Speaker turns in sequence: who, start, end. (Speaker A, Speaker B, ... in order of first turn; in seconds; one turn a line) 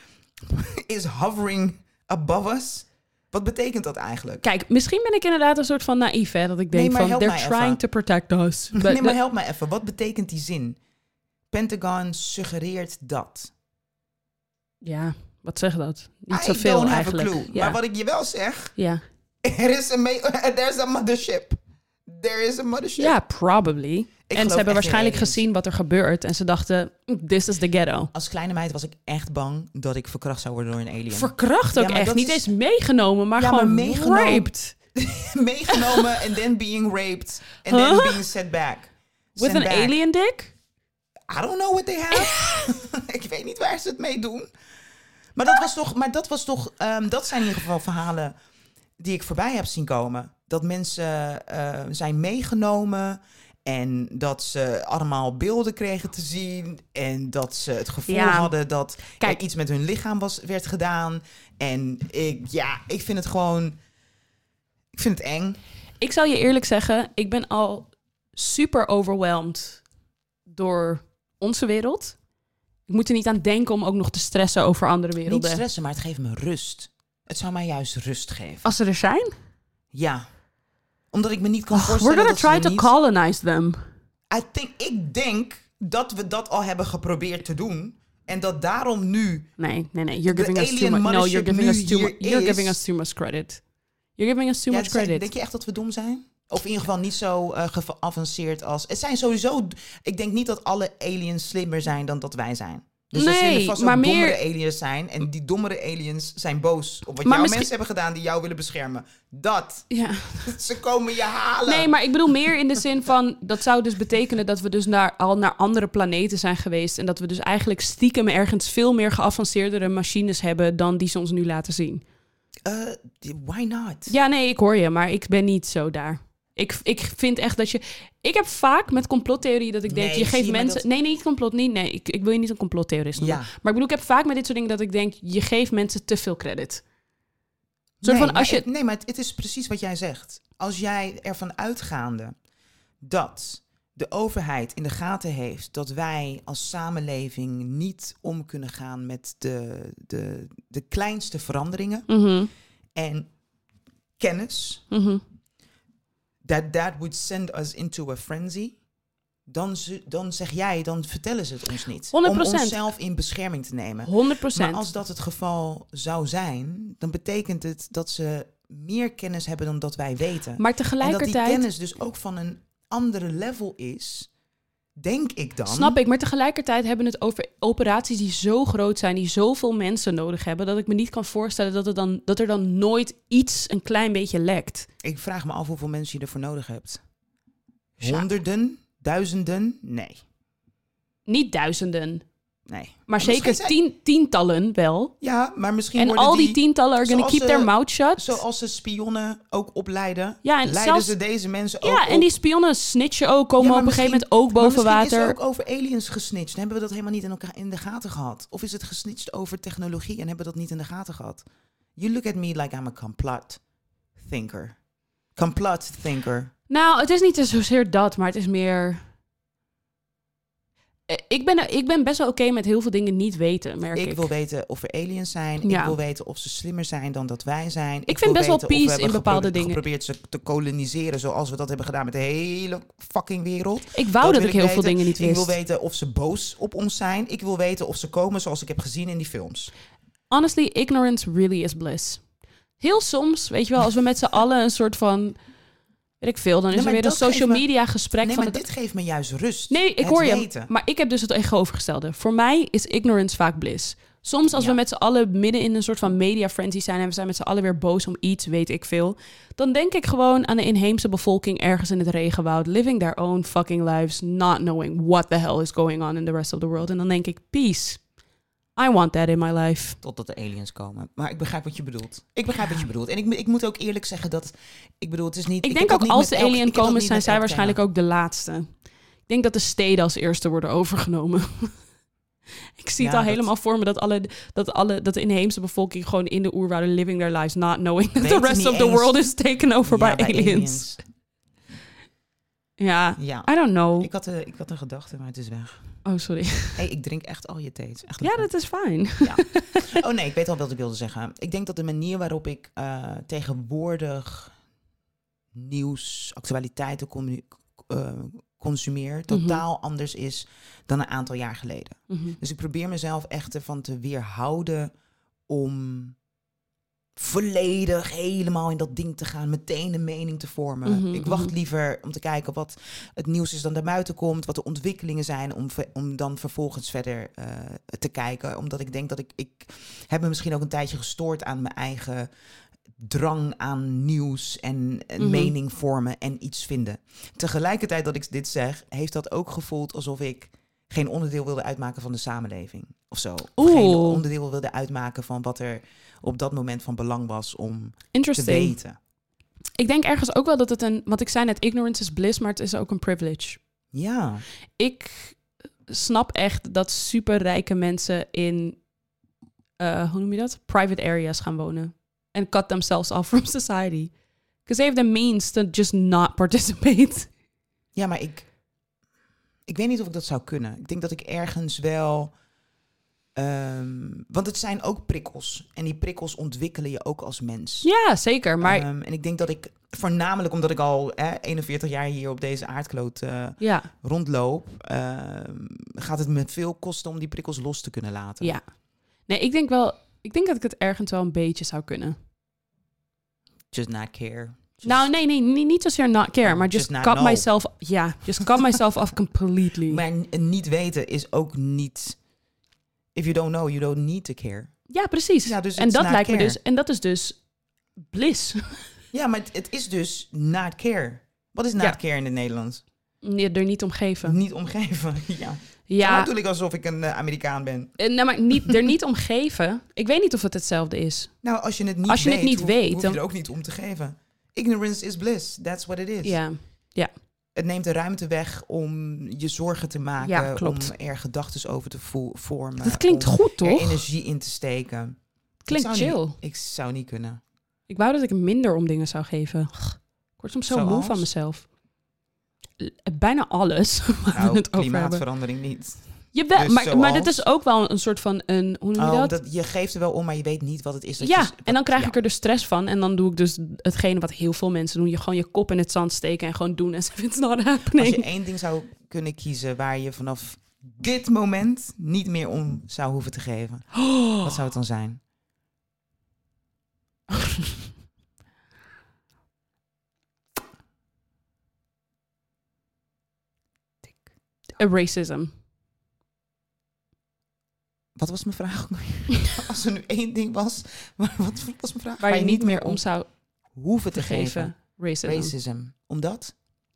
Speaker A: 0.4-4.4
Speaker B: 4.4-9.2
Speaker A: 6.7-7.8
Speaker A: 8.7-10.8
Speaker A: 11.5-13.5
Speaker B: 14.8-17.8
Speaker A: 16.3-18.8
Speaker B: 18.8-19.0
Speaker A: 19.4-23.1
Speaker B: 23.0-28.1
Speaker A: 24.3-25.4
Speaker A: 28.1-32.5
Speaker B: 31.1-34.7
Speaker A: 33.4-40.0
Speaker B: 35.7-36.0
Speaker B: 37.7-38.2
Speaker B: 39.4-40.5
Speaker A: 41.3-44.5
Speaker B: 42.1-42.6
Speaker A: 45.3-48.3
Speaker A: 49.0-63.8
Speaker B: 58.1-58.5
Speaker A: 64.9-65.6
Speaker B: 66.0-69.8
Speaker B: 70.5-72.2
Speaker B: 72.9-75.6
Speaker A: 75.2-78.7
Speaker B: 78.6-79.3
Speaker A: 79.9-80.2
Speaker A: 81.1-82.9
Speaker B: 81.7-83.8
Speaker A: 84.3-89.5
Speaker B: 89.6-93.6
Speaker A: 90.3-92.8
Speaker B: 94.2-95.3
Speaker A: 94.7-109.9
Speaker B: 103.1-104.4
Speaker B: 107.2-107.7
Speaker B: 109.9-110.5
Speaker A: 110.4-111.9
Speaker B: 111.7-122.0
Speaker A: 122.6-124.1
Speaker B: 124.1-136.8
Speaker A: 129.9-130.8
Speaker A: 133.2-133.5
Speaker A: 138.0-142.3
Speaker B: 138.0-138.7
Speaker A: 143.0-152.1
Speaker B: 152.1-152.5
Speaker A: 152.9-153.3
Speaker A: 154.2-154.8
Speaker B: 154.9-155.2
Speaker A: 156.4-158.8
Speaker A: 159.5-174.3
Speaker B: 162.1-162.8
Speaker B: 164.1-164.8
Speaker B: 170.6-171.6
Speaker A: 175.0-176.0
Speaker B: 175.7-184.9
Speaker A: 185.0-187.0
Speaker A: 188.0-190.2
Speaker B: 188.0-188.2
Speaker B: 191.3-192.2
Speaker A: 192.7-193.8
Speaker B: 193.1-195.1
Speaker A: 195.2-202.3
Speaker B: 195.9-198.4
Speaker B: 200.4-201.1
Speaker B: 201.8-205.3
Speaker A: 203.6-211.4
Speaker A: 212.0-213.6
Speaker A: 214.2-214.8
Speaker A: 215.3-216.5
Speaker B: 216.7-219.0
Speaker B: 221.1-224.3
Speaker A: 223.9-239.7
Speaker B: 225.6-225.9
Speaker B: 228.1-229.8
Speaker B: 233.9-235.6
Speaker B: 240.3-242.2
Speaker B: 242.8-245.3
Speaker B: 246.2-248.6
Speaker A: 246.7-247.7
Speaker A: 248.2-250.7
Speaker B: 249.7-268.0
Speaker A: 254.5-254.8
Speaker B: 268.8-270.0
Speaker A: 270.0-277.8
Speaker B: 275.6-278.7
Speaker B: 279.2-281.7
Speaker B: 282.8-290.9
Speaker A: 283.0-283.5
Speaker A: 288.2-289.1
Speaker A: 289.8-291.0
Speaker B: 292.8-294.1
Speaker A: 293.2-295.8
Speaker B: 296.0-296.8
Speaker A: 296.8-298.5
Speaker B: 298.2-300.0
Speaker A: 299.2-304.5
Speaker A: 305.5-314.9
Speaker B: 309.3-309.6
Speaker B: 312.1-312.4
Speaker A: 315.5-316.2
Speaker A: 317.1-332.3
Speaker B: 320.8-321.5
Speaker A: 333.0-349.0
Speaker B: 335.2-335.5
Speaker B: 343.6-344.2
Speaker B: 348.1-348.7
Speaker B: 349.8-353.6
Speaker A: 353.9-354.4
Speaker B: 354.8-358.8
Speaker B: 359.8-364.1
Speaker B: 364.6-367.3
Speaker A: 367.9-368.4
Speaker A: 369.7-372.3
Speaker A: 373.3-377.9
Speaker B: 377.8-378.8
Speaker A: 378.6-388.6
Speaker B: 383.6-383.9
Speaker B: 389.3-392.1
Speaker A: 393.7-395.1
Speaker B: 394.8-400.0
Speaker A: 396.4-397.4
Speaker A: 399.9-402.2
Speaker A: 403.1-404.8
Speaker B: 404.9-407.4
Speaker A: 405.4-406.6
Speaker B: 408.1-408.8
Speaker A: 409.1-412.8
Speaker B: 413.2-414.4
Speaker A: 414.2-418.0
Speaker B: 415.9-416.3
Speaker B: 418.0-421.3
Speaker A: 421.4-426.4
Speaker B: 422.1-423.2
Speaker B: 426.2-427.1
Speaker A: 427.5-435.2
Speaker B: 430.2-430.9
Speaker B: 432.8-434.0
Speaker B: 435.6-436.4
Speaker A: 435.7-437.4
Speaker B: 437.9-441.7
Speaker A: 440.7-441.3
Speaker B: 442.8-445.2
Speaker A: 444.3-447.4
Speaker B: 446.3-449.4
Speaker A: 449.0-452.1
Speaker B: 451.2-458.2
Speaker A: 457.9-465.2
Speaker B: 463.9-464.5
Speaker B: 467.3-467.7
Speaker B: 474.8-475.5
Speaker A: 478.1-483.0
Speaker B: 482.2-483.3
Speaker A: 483.7-486.5
Speaker B: 484.1-485.5